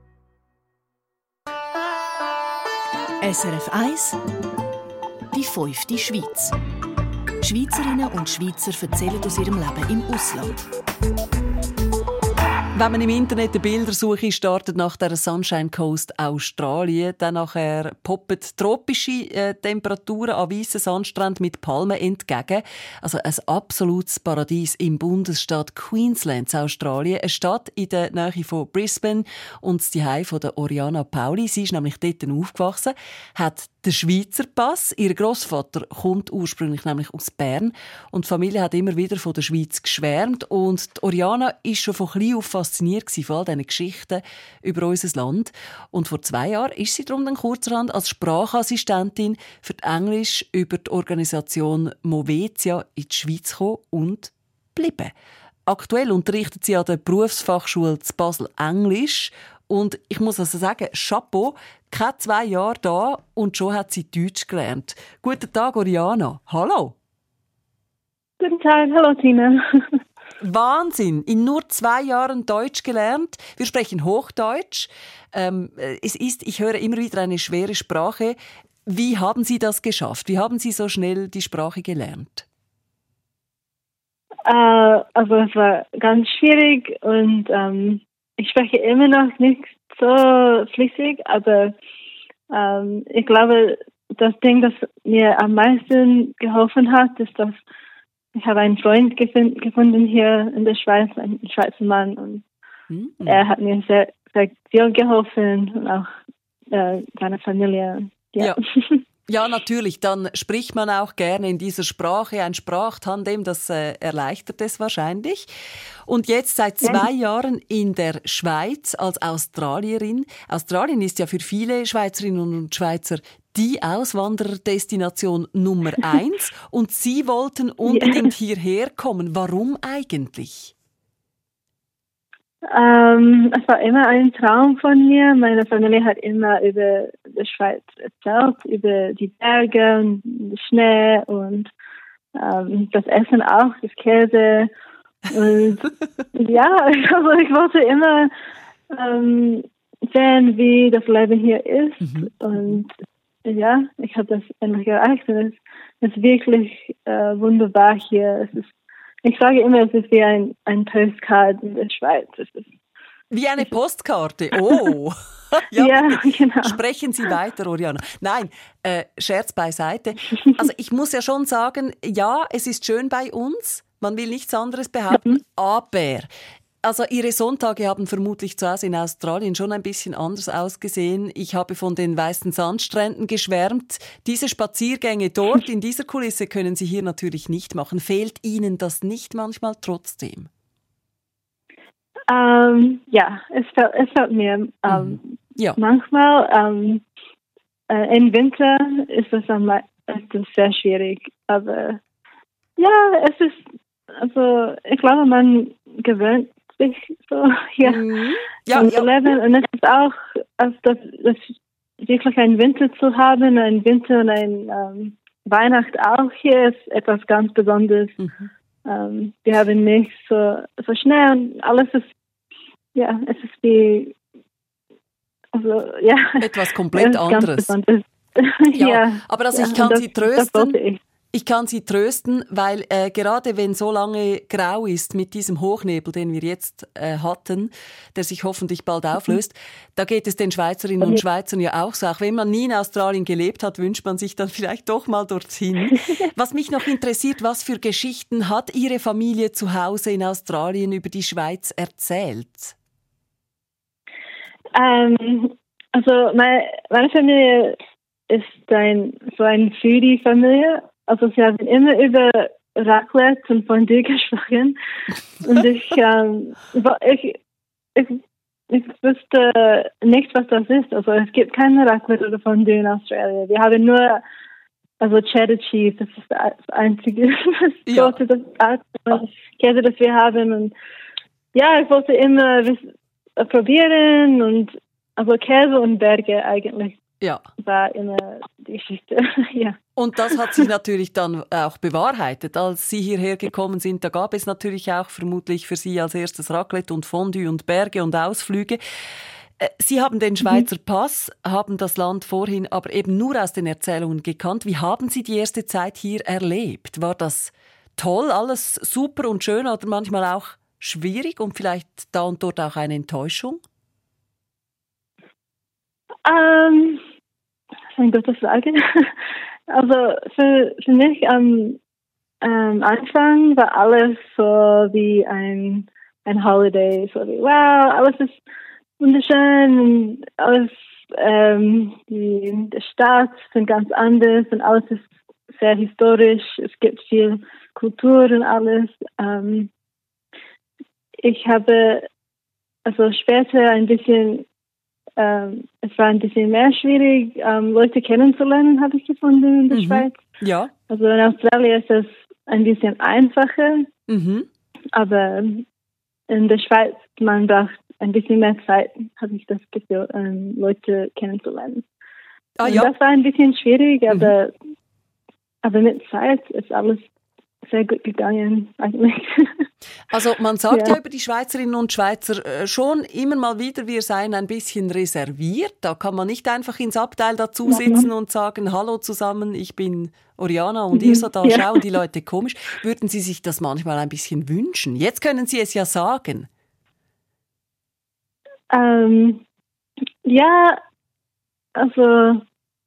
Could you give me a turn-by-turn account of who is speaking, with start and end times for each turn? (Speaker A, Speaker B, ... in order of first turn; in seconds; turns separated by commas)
Speaker A: 3.2-4.2, Speaker A: 5.3-6.5, Speaker A: 7.4-10.6, Speaker B: 12.7-55.1, Speaker B: 55.6-66.9, Speaker C: 68.4-69.6, Speaker B: 70.4-82.5, Speaker C: 84.5-91.7, Speaker C: 92.5-97.6, Speaker C: 98.3-102.4, Speaker B: 102.9-103.4, Speaker C: 103.2-106.0, Speaker C: 106.7-109.0, Speaker B: 109.3-115.5, Speaker B: 116.1-130.7, Speaker C: 127.8-128.3, Speaker C: 132.7-141.7, Speaker C: 142.3-144.7, Speaker C: 145.3-148.3, Speaker C: 148.9-152.9, Speaker B: 152.0-152.3, Speaker C: 153.4-158.7, Speaker C: 159.2-162.7, Speaker B: 163.3-176.3, Speaker C: 165.8-166.8, Speaker C: 175.1-175.4, Speaker B: 176.8-190.5, Speaker C: 192.3-197.0, Speaker B: 194.9-195.8, Speaker C: 197.9-202.0, Speaker C: 202.8-203.6, Speaker C: 204.1-208.0, Speaker B: 207.8-209.1, Speaker C: 208.7-218.2, Speaker B: 218.2-218.5, Speaker C: 218.8-222.1, Speaker C: 222.9-224.2, Speaker C: 225.5-231.0, Speaker B: 226.4-227.7, Speaker B: 228.7-230.8, Speaker B: 231.3-252.7, Speaker C: 254.7-257.8, Speaker C: 258.3-264.8, Speaker C: 265.4-267.4, Speaker C: 267.9-274.2, Speaker C: 275.0-280.7, Speaker B: 277.9-278.2, Speaker C: 281.5-282.9, Speaker C: 283.4-287.0, Speaker C: 287.6-290.6, Speaker B: 289.9-298.8, Speaker B: 299.6-313.6, Speaker C: 316.2-317.0, Speaker C: 317.9-319.1, Speaker C: 319.7-321.8, Speaker C: 322.4-328.4, Speaker C: 329.0-339.7, Speaker C: 341.2-342.1, Speaker C: 342.8-344.4, Speaker C: 345.2-350.1, Speaker B: 349.7-350.7, Speaker C: 350.9-353.9, Speaker B: 354.1-354.5, Speaker C: 354.9-355.6, Speaker C: 356.3-361.8, Speaker B: 362.6-362.9, Speaker C: 362.6-364.5, Speaker C: 365.6-367.1, Speaker C: 367.7-369.6, Speaker B: 370.1-386.5, Speaker C: 370.7-371.0, Speaker C: 377.7-378.1, Speaker C: 380.9-381.7, Speaker C: 388.7-389.4, Speaker C: 390.2-390.8, Speaker C: 391.8-392.4